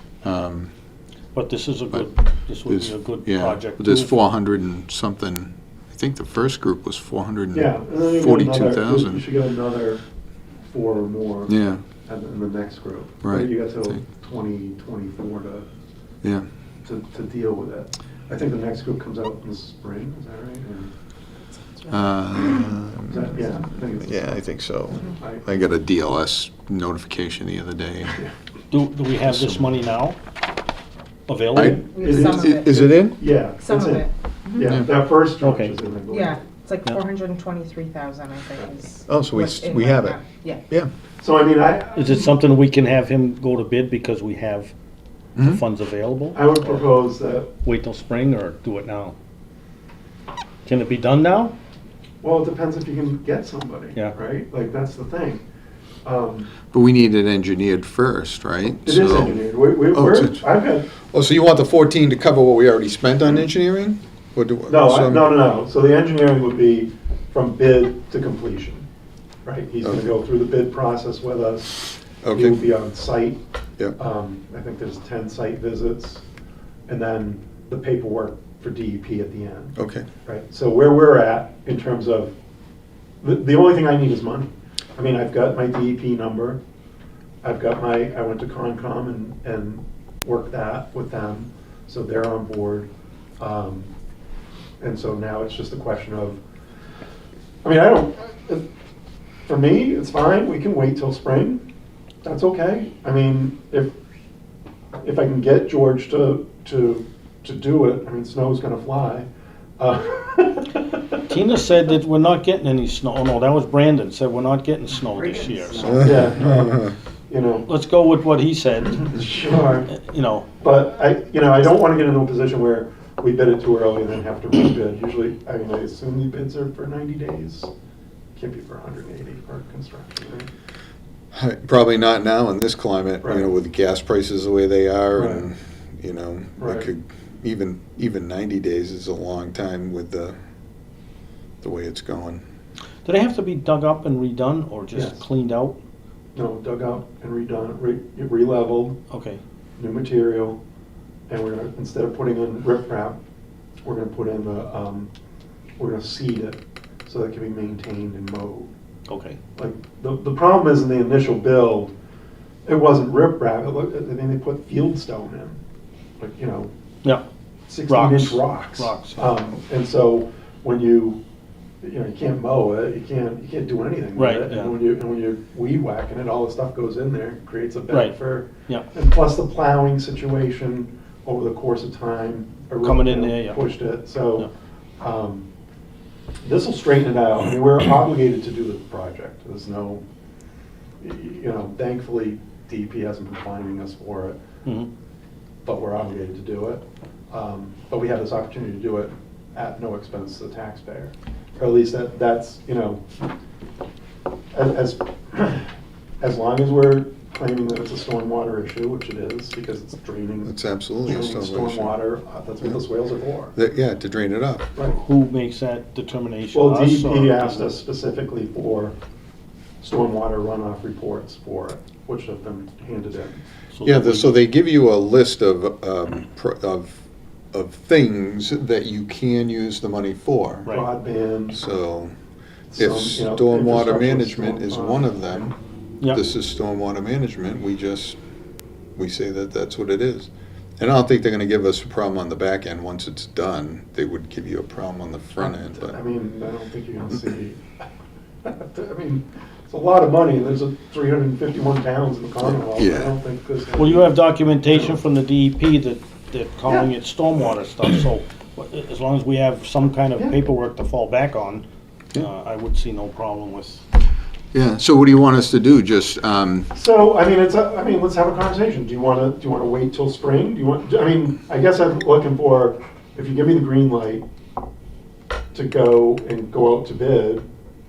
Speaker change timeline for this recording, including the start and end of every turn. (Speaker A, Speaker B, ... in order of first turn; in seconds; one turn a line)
Speaker A: 0.2-0.7
Speaker B: 1.3-4.1
Speaker A: 2.6-9.2
Speaker C: 7.5-10.0
Speaker C: 10.7-11.5
Speaker A: 11.5-11.8
Speaker C: 12.0-15.7
Speaker A: 13.2-14.0
Speaker C: 16.8-20.9
Speaker A: 21.9-23.4
Speaker C: 23.1-25.4
Speaker A: 24.0-28.2
Speaker B: 28.7-30.2
Speaker A: 29.2-29.8
Speaker B: 31.3-31.8
Speaker A: 31.5-33.2
Speaker D: 31.9-33.0
Speaker C: 31.9-36.4
Speaker D: 33.6-34.7
Speaker A: 34.6-34.9
Speaker B: 35.4-35.8
Speaker D: 36.1-40.6
Speaker A: 39.1-40.9
Speaker C: 41.2-42.3
Speaker B: 42.0-44.7
Speaker A: 45.4-45.6
Speaker B: 45.4-46.8
Speaker C: 46.3-47.5
Speaker B: 47.6-49.1
Speaker B: 50.6-51.5
Speaker C: 52.2-55.4
Speaker C: 56.0-56.5
Speaker A: 56.7-60.4
Speaker C: 58.8-60.9
Speaker A: 61.1-65.3
Speaker C: 64.7-68.8
Speaker C: 69.4-73.4
Speaker A: 72.2-72.6
Speaker C: 74.0-76.2
Speaker C: 76.9-82.3
Speaker A: 79.8-80.1
Speaker C: 83.2-86.6
Speaker C: 87.4-93.9
Speaker C: 94.8-96.4
Speaker C: 97.6-98.7
Speaker C: 99.5-101.6
Speaker C: 102.2-103.9
Speaker C: 105.0-109.3
Speaker C: 109.8-111.2
Speaker B: 111.3-116.2
Speaker D: 115.5-116.0
Speaker C: 115.9-117.7
Speaker A: 116.4-116.9
Speaker B: 117.7-119.4
Speaker C: 119.1-119.9
Speaker B: 119.9-120.5
Speaker C: 120.6-127.7
Speaker C: 128.3-130.5
Speaker A: 131.3-140.4
Speaker C: 133.2-133.5
Speaker C: 135.2-135.5
Speaker C: 136.6-136.9
Speaker A: 141.6-142.4
Speaker B: 143.0-145.8
Speaker C: 144.9-145.2
Speaker C: 146.3-149.0
Speaker B: 149.1-149.4
Speaker C: 149.8-150.6
Speaker C: 151.3-153.2
Speaker C: 153.8-155.1
Speaker C: 155.8-158.7
Speaker B: 159.1-159.4
Speaker C: 159.6-161.9
Speaker C: 162.6-165.6
Speaker C: 166.2-166.7
Speaker C: 167.7-171.2
Speaker B: 167.9-169.2
Speaker C: 171.8-185.5
Speaker B: 174.2-174.8
Speaker B: 177.9-178.2
Speaker B: 182.8-183.6
Speaker C: 186.4-190.0
Speaker C: 191.0-194.4
Speaker C: 195.6-203.1
Speaker C: 204.5-205.7
Speaker C: 206.2-213.5
Speaker A: 210.4-212.0
Speaker A: 213.5-214.7
Speaker B: 214.9-217.7
Speaker C: 216.5-218.9
Speaker C: 219.8-223.4
Speaker B: 223.7-224.3
Speaker A: 223.8-230.7
Speaker C: 230.7-231.6
Speaker A: 231.5-232.1
Speaker C: 232.7-235.5
Speaker A: 232.8-235.5
Speaker A: 236.1-238.2
Speaker A: 238.9-246.0
Speaker C: 245.4-247.6
Speaker C: 248.4-255.0
Speaker A: 252.4-253.2
Speaker B: 253.8-263.8
Speaker A: 264.5-266.7
Speaker C: 266.7-274.2
Speaker C: 275.5-277.4